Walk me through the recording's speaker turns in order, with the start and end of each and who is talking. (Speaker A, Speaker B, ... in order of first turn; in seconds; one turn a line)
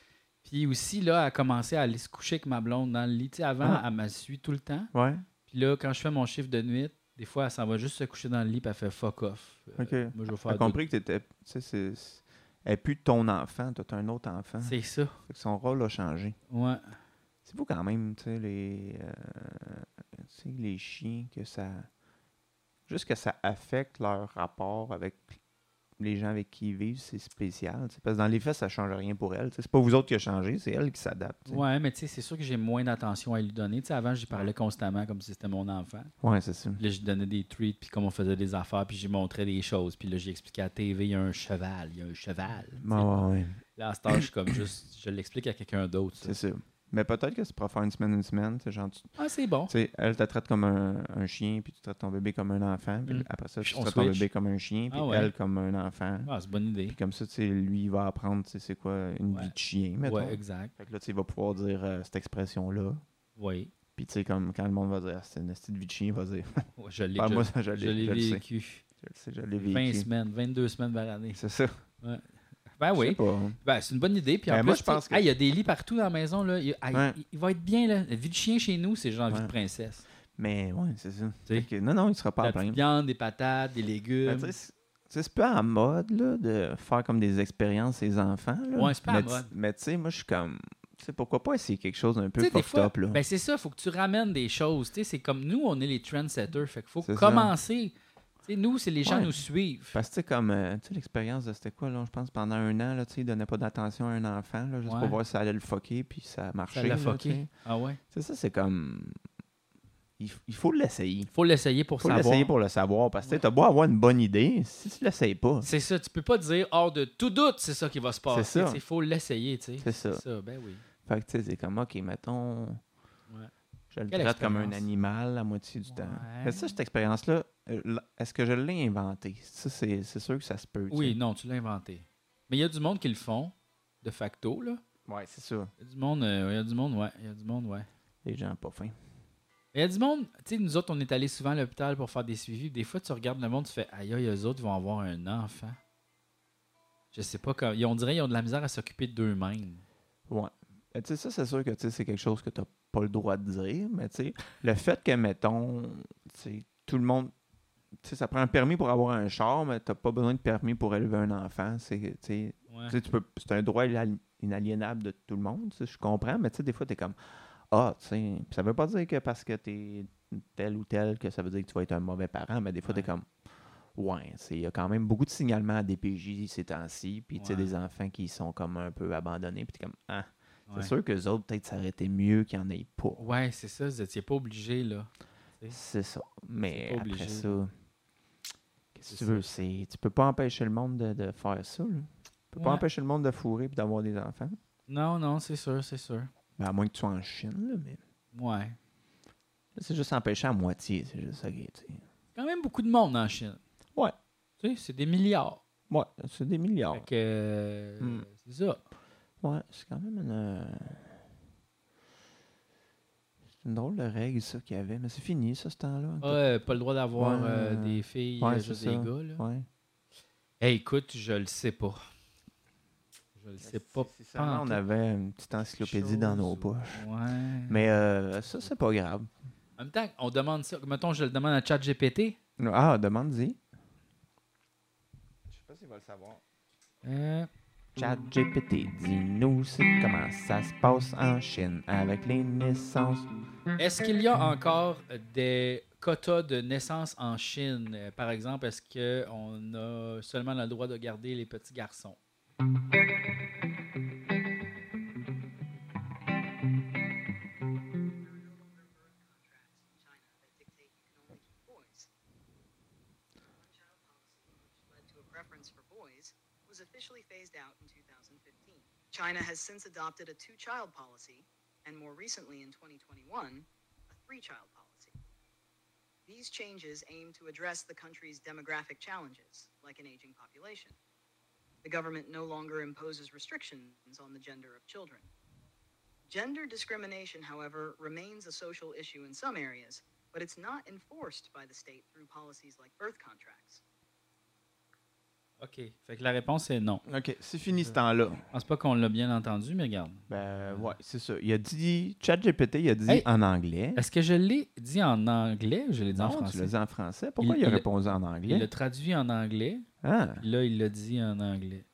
Speaker A: 0.4-4.9
Speaker B: 4.9-5.2
Speaker A: 5.5-10.8
Speaker B: 9.8-16.3
Speaker A: 14.6-15.2
Speaker A: 16.5-16.9
Speaker B: 17.4-21.9
Speaker B: 22.9-25.2
Speaker B: 26.0-31.6
Speaker A: 31.5-36.1
Speaker B: 36.2-36.8
Speaker A: 36.8-43.1
Speaker B: 42.8-43.6
Speaker A: 43.8-46.3
Speaker B: 46.2-49.1
Speaker A: 49.2-49.7
Speaker B: 49.7-56.3
Speaker A: 53.0-54.3
Speaker A: 54.9-55.3
Speaker A: 56.2-57.0
Speaker B: 56.9-63.0
Speaker A: 59.3-60.7
Speaker A: 63.4-63.7
Speaker B: 64.0-68.4
Speaker A: 66.8-68.8
Speaker B: 69.0-70.1
Speaker A: 69.6-71.4
Speaker B: 71.3-71.8
Speaker A: 72.8-80.0
Speaker B: 72.9-73.6
Speaker B: 74.5-75.2
Speaker B: 76.9-77.2
Speaker B: 80.3-82.8
Speaker A: 82.4-84.5
Speaker B: 84.2-93.2
Speaker A: 88.8-89.5
Speaker A: 92.4-97.9
Speaker B: 97.0-97.5
Speaker A: 98.4-100.0
Speaker B: 99.0-107.5
Speaker A: 104.8-105.2
Speaker A: 106.7-108.0
Speaker B: 108.1-109.2
Speaker B: 110.2-111.3
Speaker A: 111.3-112.5
Speaker B: 112.0-115.7
Speaker A: 115.6-120.8
Speaker B: 118.3-118.8
Speaker B: 119.8-120.2
Speaker B: 121.0-122.8
Speaker B: 123.9-131.2
Speaker A: 124.1-124.8
Speaker A: 125.8-126.8
Speaker A: 130.9-134.8
Speaker B: 135.1-135.7
Speaker A: 135.8-137.9
Speaker B: 138.2-139.0
Speaker A: 139.7-145.8
Speaker A: 147.1-149.8
Speaker B: 150.3-157.3
Speaker B: 158.0-173.3
Speaker A: 162.7-162.9
Speaker A: 172.8-173.1
Speaker B: 173.9-183.2
Speaker A: 177.3-177.7
Speaker A: 183.2-185.8
Speaker B: 185.7-187.7
Speaker A: 186.7-187.6
Speaker B: 188.9-194.6
Speaker A: 189.1-189.4
Speaker A: 192.6-192.8
Speaker A: 194.9-196.3
Speaker B: 196.6-198.0
Speaker A: 198.3-198.8
Speaker B: 199.7-202.0
Speaker A: 202.3-203.6
Speaker A: 204.6-205.6
Speaker B: 205.9-207.1
Speaker A: 206.9-208.8
Speaker B: 208.0-208.2
Speaker B: 209.4-211.2
Speaker B: 213.6-216.4
Speaker A: 216.2-219.4
Speaker B: 217.2-219.7
Speaker A: 220.6-222.0
Speaker A: 223.3-224.8
Speaker B: 223.6-227.0
Speaker A: 225.8-227.8
Speaker B: 227.7-229.3
Speaker A: 229.8-232.4
Speaker B: 232.6-233.6
Speaker B: 235.5-236.4
Speaker A: 237.0-237.5
Speaker B: 237.9-243.3
Speaker A: 243.8-252.2
Speaker C: 258.1-262.1
Speaker C: 263.6-275.2
Speaker C: 276.2-280.9
Speaker C: 281.8-285.3
Speaker C: 286.3-293.8
Speaker A: 295.6-297.0
Speaker B: 297.1-298.4
Speaker A: 298.5-300.9
Speaker B: 300.3-304.0
Speaker A: 303.9-306.7
Speaker B: 306.1-308.7
Speaker A: 307.4-307.8
Speaker A: 308.4-309.9
Speaker B: 310.0-310.4
Speaker A: 310.4-311.9